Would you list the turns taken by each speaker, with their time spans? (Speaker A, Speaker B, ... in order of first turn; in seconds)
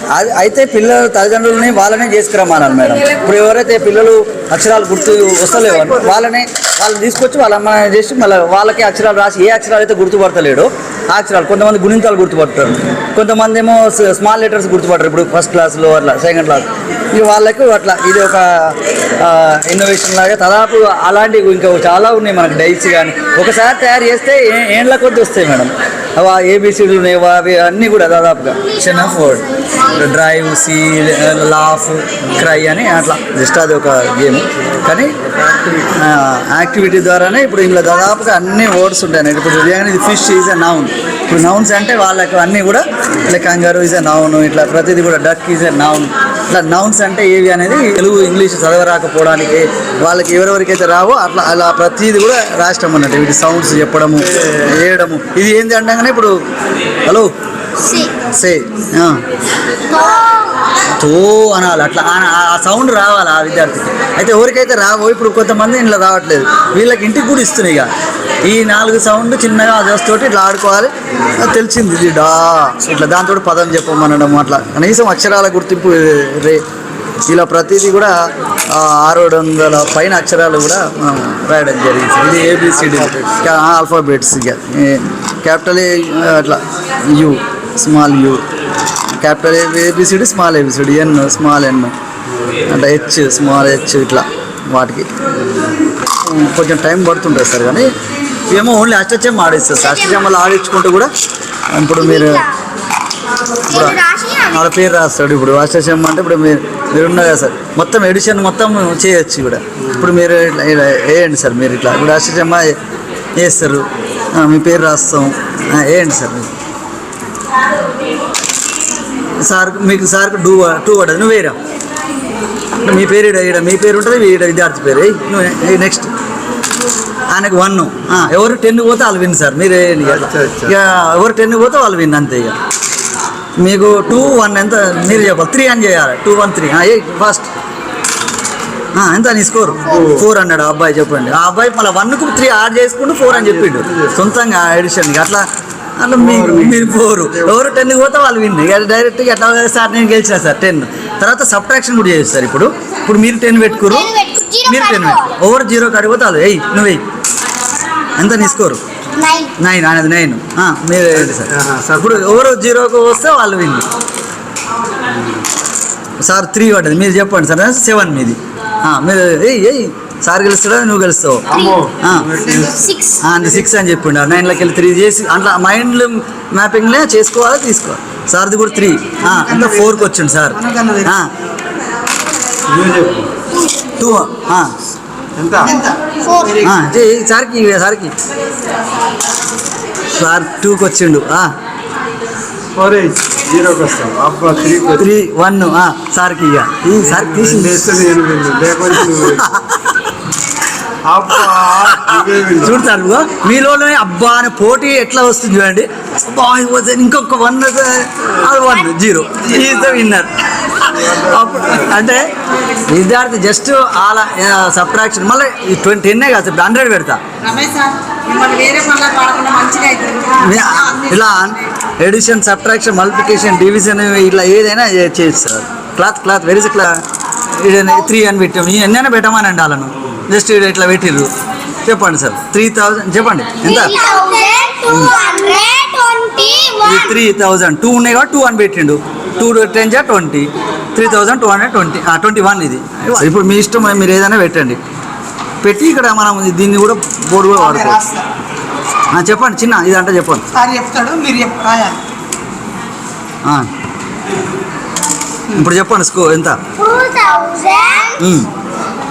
Speaker A: 0.1-35.1, 35.9-56.3, 57.0-57.3, 58.3-59.2, 61.0-67.9, 68.4-76.6, 77.3-78.1, 78.7-88.4, 89.2-91.9, 92.7-95.1, 96.2-97.9, 98.5-101.1, 101.7-102.4, 103.7-104.0, 104.5-112.8, 113.4-116.5, 119.4-121.6, 122.8-126.1, 127.3-132.6, 133.6-137.5, 138.9-145.4, 146.0-154.1, 154.6-157.0, 158.2-158.8, 159.6-163.9, 166.2-172.4, 173.2-181.3, 184.0-184.7, 186.6-188.1, 190.2-191.5, 194.9-198.2, 198.9-199.9, 201.3-212.3, 212.9-217.2, 220.4-227.0, 227.6-231.3, 231.8-233.9, 234.9-235.1, 236.8-244.8, 245.6-248.0, 249.1-250.4, 255.5-256.6, 258.2-258.5
Speaker B: 4.8-6.1, 217.4-220.6, 247.6-248.2, 250.5-252.0
Speaker C: 57.8-58.1, 59.9-60.6, 102.0-102.5, 103.7-104.7, 153.7-155.4, 159.2-159.5, 171.5-173.2, 185.6-186.6, 233.6-237.2, 256.8-258.2
Speaker D: 161.5-162.0, 171.6-172.6, 182.7-183.3, 185.3-185.6, 192.7-195.0, 197.4-199.4, 201.1-202.6